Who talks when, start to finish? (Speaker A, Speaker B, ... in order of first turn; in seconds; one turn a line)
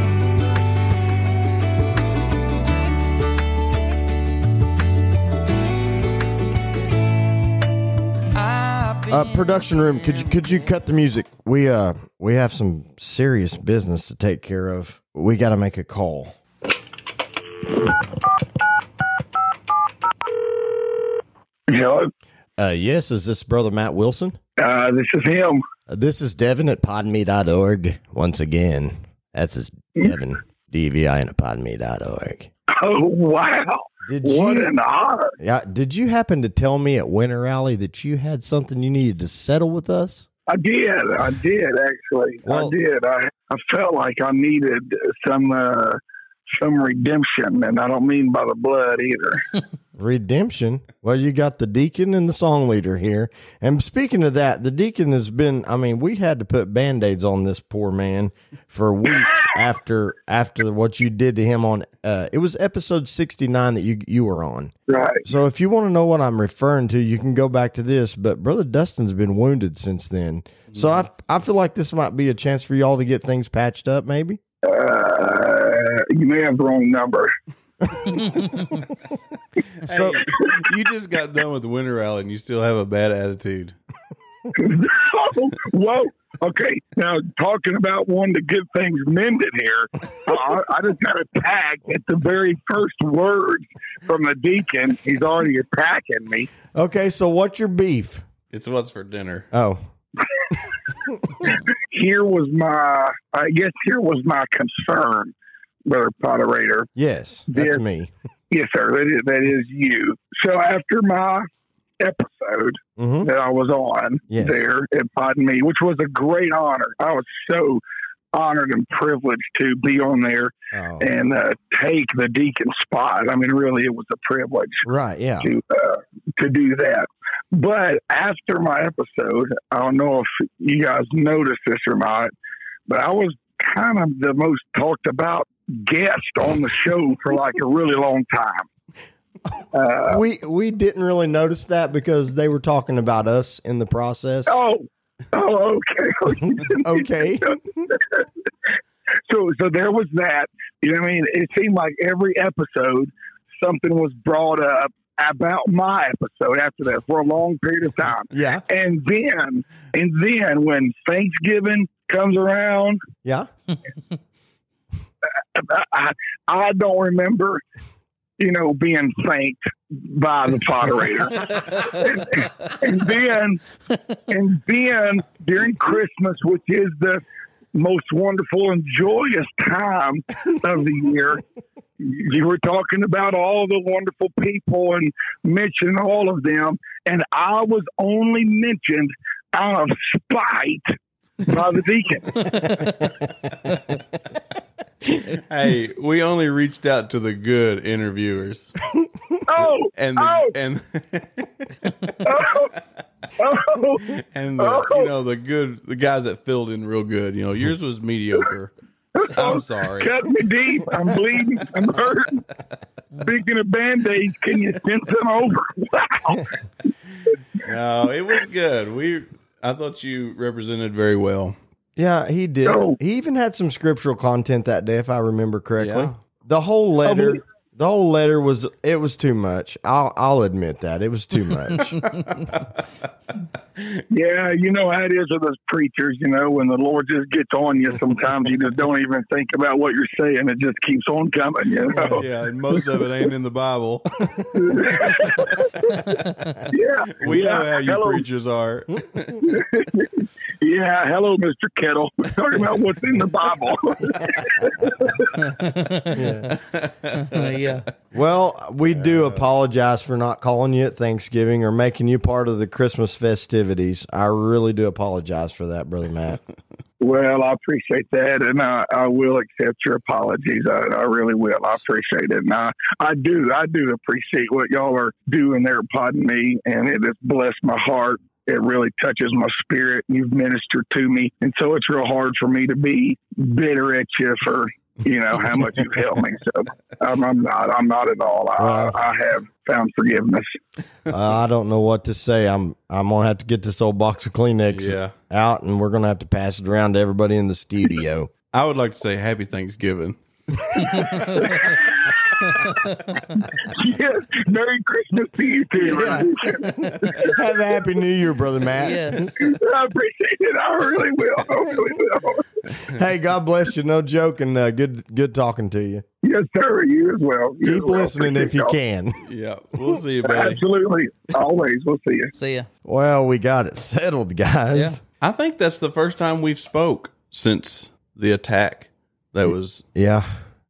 Speaker A: 8.3-10.4
Speaker B: 9.1-16.4
Speaker C: 21.7-22.1
Speaker B: 22.6-24.4
Speaker C: 24.6-25.6
Speaker B: 25.9-32.5
Speaker C: 32.7-35.4
Speaker B: 34.1-34.7
Speaker B: 35.4-40.3
Speaker C: 40.5-46.0
Speaker B: 42.5-42.8
Speaker C: 46.5-49.6
Speaker B: 50.0-64.7
Speaker C: 64.9-65.2
Speaker B: 65.2-74.4
Speaker C: 74.6-77.3
Speaker B: 77.9-78.8
Speaker D: 79.8-83.8
Speaker B: 79.9-80.2
Speaker C: 84.5-96.5
Speaker B: 96.7-98.2
Speaker D: 98.5-99.5
Speaker B: 99.5-99.8
Speaker C: 101.4-105.3
Speaker C: 105.8-106.9
Speaker B: 107.0-108.1
Speaker C: 107.5-107.8
Speaker C: 108.5-111.5
Speaker C: 112.0-117.8
Speaker B: 113.0-113.3
Speaker B: 114.3-114.6
Speaker C: 118.3-124.9
Speaker B: 120.7-121.1
Speaker B: 124.8-125.5
Speaker C: 125.4-132.3
Speaker C: 132.9-138.7
Speaker C: 139.7-140.2
Speaker B: 140.1-144.6
Speaker C: 144.5-148.3
Speaker B: 146.7-147.9
Speaker C: 149.3-163.0
Speaker B: 158.3-158.6
Speaker C: 165.6-167.6
Speaker C: 168.4-173.6
Speaker C: 174.3-177.2
Speaker C: 177.7-181.4
Speaker C: 182.0-192.9
Speaker A: 192.6-193.0
Speaker D: 195.2-198.8
Speaker C: 199.5-200.5
Speaker D: 199.6-202.6
Speaker C: 202.2-202.7
Speaker C: 203.4-205.1
Speaker D: 204.1-210.3
Speaker C: 209.2-212.4
Speaker C: 213.2-216.6
Speaker D: 217.6-221.6
Speaker B: 222.0-232.1
Speaker C: 222.6-223.0
Speaker D: 225.8-226.2
Speaker C: 227.1-227.4
Speaker D: 232.3-232.6
Speaker C: 234.1-242.2
Speaker D: 242.0-245.4
Speaker C: 244.6-246.1
Speaker C: 246.7-248.2
Speaker D: 247.2-249.4
Speaker C: 249.4-255.3
Speaker A: 255.3-256.5
Speaker B: 256.1-256.5
Speaker D: 256.5-257.7
Speaker A: 257.1-257.9
Speaker B: 258.1-266.4
Speaker C: 267.0-290.6
Speaker B: 288.6-289.0
Speaker B: 291.1-298.3
Speaker D: 294.7-295.1
Speaker D: 298.5-301.7
Speaker A: 300.8-301.6
Speaker C: 301.5-302.1
Speaker A: 302.5-303.2
Speaker C: 303.6-307.6
Speaker B: 305.8-309.3
Speaker A: 308.8-309.4
Speaker C: 309.4-312.5
Speaker B: 312.8-316.1
Speaker C: 316.2-318.8
Speaker B: 317.6-319.2
Speaker D: 319.2-320.6
Speaker C: 320.2-322.3
Speaker A: 322.3-322.7
Speaker B: 322.9-325.0
Speaker D: 325.2-329.8
Speaker B: 329.9-330.3